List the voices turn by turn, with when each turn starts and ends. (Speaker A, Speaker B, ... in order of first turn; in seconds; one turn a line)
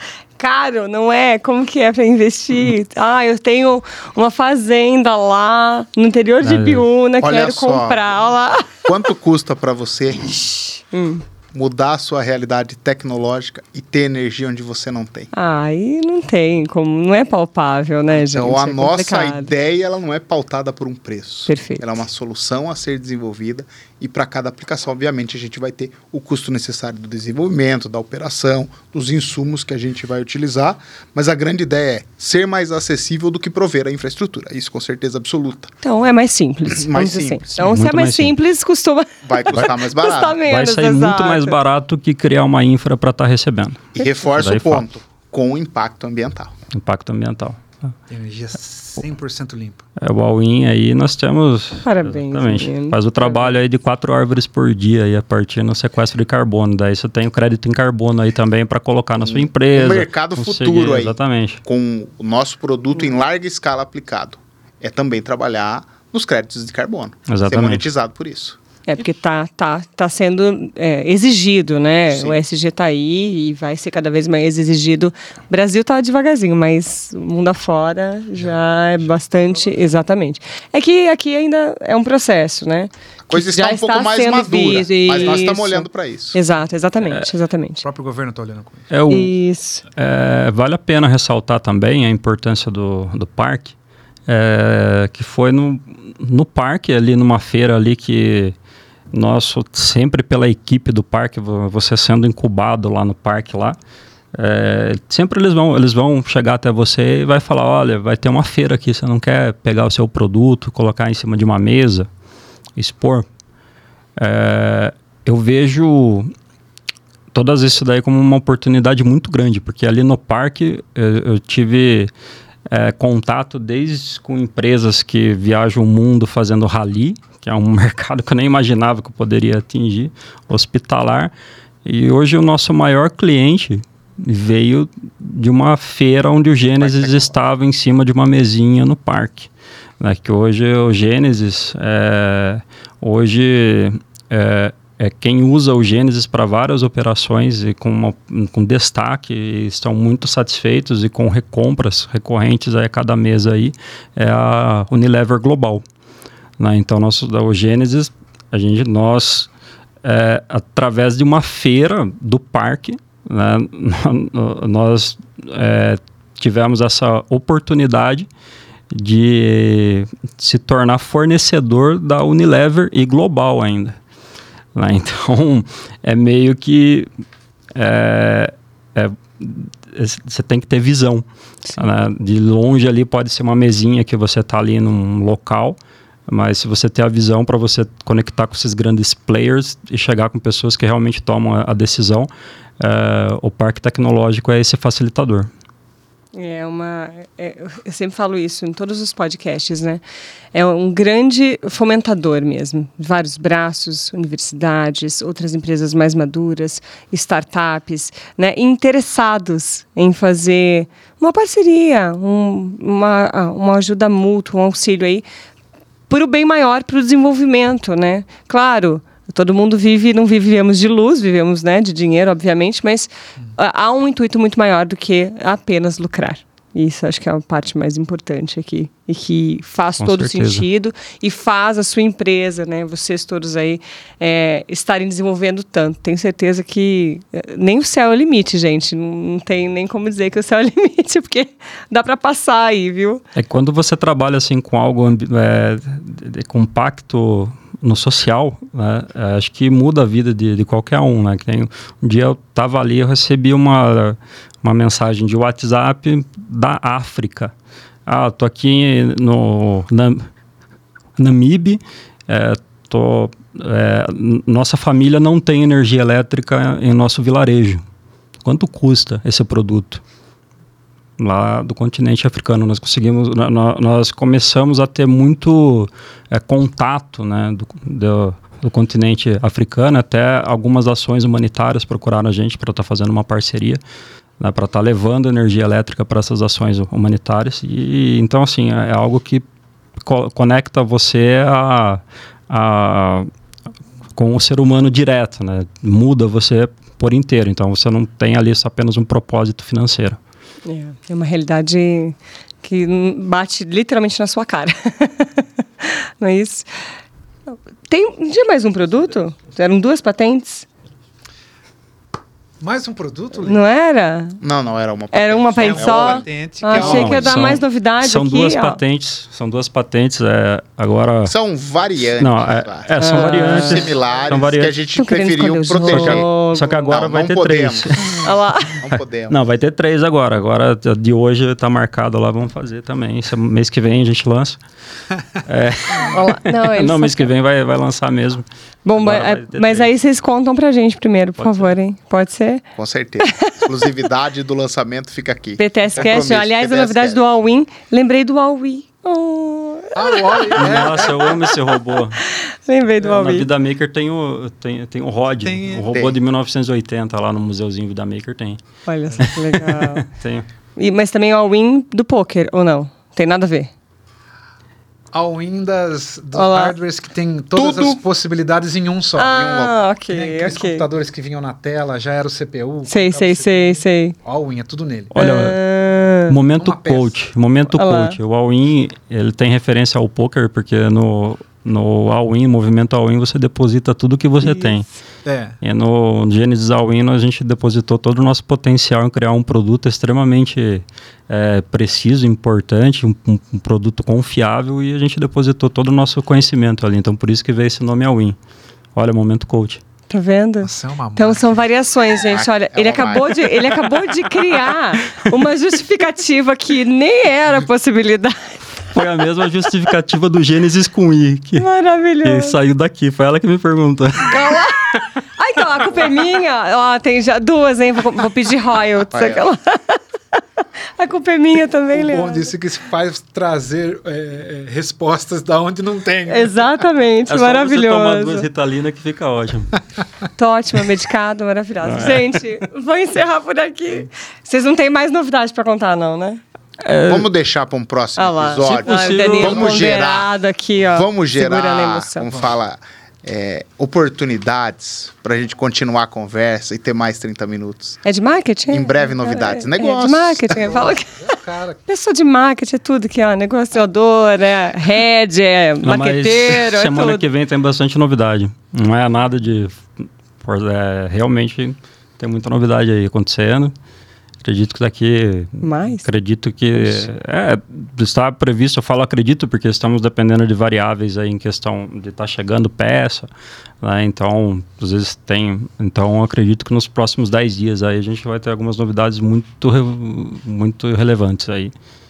Speaker A: 0.4-8.8
Speaker B: 6.4-6.8
Speaker C: 7.2-8.1
Speaker C: 8.8-10.7
Speaker A: 10.9-11.2
Speaker C: 11.5-15.3
Speaker A: 15.3-19.5
Speaker C: 18.2-35.7
Speaker A: 21.5-22.0
Speaker A: 35.8-41.6
Speaker C: 36.8-37.4
Speaker B: 37.6-38.3
Speaker C: 39.2-40.4
Speaker B: 40.4-44.8
Speaker C: 43.9-46.5
Speaker B: 46.7-47.9
Speaker D: 48.1-49.8
Speaker B: 50.0-61.6
Speaker A: 51.8-53.5
Speaker C: 59.2-68.6
Speaker B: 67.3-67.9
Speaker A: 68.9-87.8
Speaker C: 72.1-72.3
Speaker D: 78.4-79.2
Speaker C: 83.3-86.4
Speaker D: 87.8-88.9
Speaker B: 88.9-89.3
Speaker A: 89.1-89.8
Speaker B: 89.9-93.7
Speaker B: 94.3-98.5
Speaker B: 99.1-103.8
Speaker B: 104.3-112.1
Speaker B: 112.8-113.2
Speaker B: 114.2-116.3
Speaker B: 117.3-122.1
Speaker B: 122.7-131.3
Speaker B: 131.8-139.5
Speaker C: 136.8-137.3
Speaker B: 140.0-155.8
Speaker B: 156.6-159.5
Speaker B: 160.0-168.3
Speaker B: 168.9-173.9
Speaker B: 174.7-177.1
Speaker B: 177.7-181.2
Speaker B: 181.7-192.3
Speaker B: 192.8-195.5
Speaker A: 196.3-200.0
Speaker A: 200.5-215.2
Speaker A: 216.1-243.2
Speaker B: 230.0-230.7
Speaker B: 243.3-257.5
Speaker B: 258.1-260.3
Speaker B: 261.2-267.8
Speaker B: 268.4-270.0
Speaker B: 271.2-283.8
Speaker B: 284.4-289.4
Speaker B: 290.0-293.3
Speaker B: 294.1-300.2
Speaker A: 300.6-306.9
Speaker A: 307.5-310.6
Speaker D: 312.6-313.6
Speaker A: 313.4-314.4
Speaker C: 314.4-317.4
Speaker A: 315.1-318.8
Speaker D: 315.6-317.5
Speaker B: 316.7-321.3
Speaker C: 321.2-326.3
Speaker B: 322.2-324.8
Speaker A: 323.0-324.0
Speaker A: 324.9-326.9
Speaker B: 325.8-328.2
Speaker C: 326.8-328.2
Speaker A: 328.2-328.8
Speaker C: 328.8-329.4
Speaker B: 329.3-334.6
Speaker B: 335.4-339.9
Speaker A: 336.0-337.3
Speaker A: 338.8-342.6
Speaker B: 341.4-341.6
Speaker C: 342.8-347.2
Speaker A: 343.2-343.7
Speaker A: 345.6-351.4
Speaker D: 349.9-351.4
Speaker B: 350.6-352.2
Speaker A: 352.2-353.5
Speaker B: 353.0-358.6
Speaker D: 355.4-355.9
Speaker C: 355.9-356.2
Speaker A: 358.9-360.1
Speaker B: 359.2-360.4
Speaker A: 360.8-363.7
Speaker D: 365.1-369.4
Speaker A: 366.3-366.7
Speaker C: 367.6-368.0
Speaker A: 369.1-370.8
Speaker C: 369.2-369.8
Speaker D: 370.1-375.1
Speaker A: 372.9-374.1
Speaker B: 375.1-375.6
Speaker A: 375.1-376.4
Speaker B: 376.3-384.8
Speaker D: 376.6-377.1
Speaker A: 377.7-378.2
Speaker A: 384.4-384.9
Speaker D: 385.2-385.6
Speaker B: 385.6-398.4
Speaker B: 398.9-399.8
Speaker A: 400.1-408.6
Speaker D: 400.6-401.6
Speaker C: 402.3-403.9
Speaker B: 408.9-411.6
Speaker A: 411.6-412.6
Speaker B: 412.2-414.6
Speaker A: 414.3-420.4
Speaker C: 419.1-419.4
Speaker A: 421.0-422.5
Speaker D: 421.9-426.7
Speaker A: 426.3-428.4
Speaker B: 427.3-429.8
Speaker A: 430.4-436.4
Speaker B: 431.8-432.5
Speaker B: 436.8-437.3
Speaker C: 437.1-440.3
Speaker A: 438.1-442.5
Speaker B: 438.6-439.9
Speaker C: 440.9-448.0
Speaker A: 448.0-451.2
Speaker C: 448.7-450.8
Speaker D: 450.5-451.8
Speaker A: 451.9-457.2
Speaker B: 455.8-459.9
Speaker B: 460.4-463.7
Speaker B: 464.4-473.3
Speaker A: 465.6-466.1
Speaker B: 473.8-481.7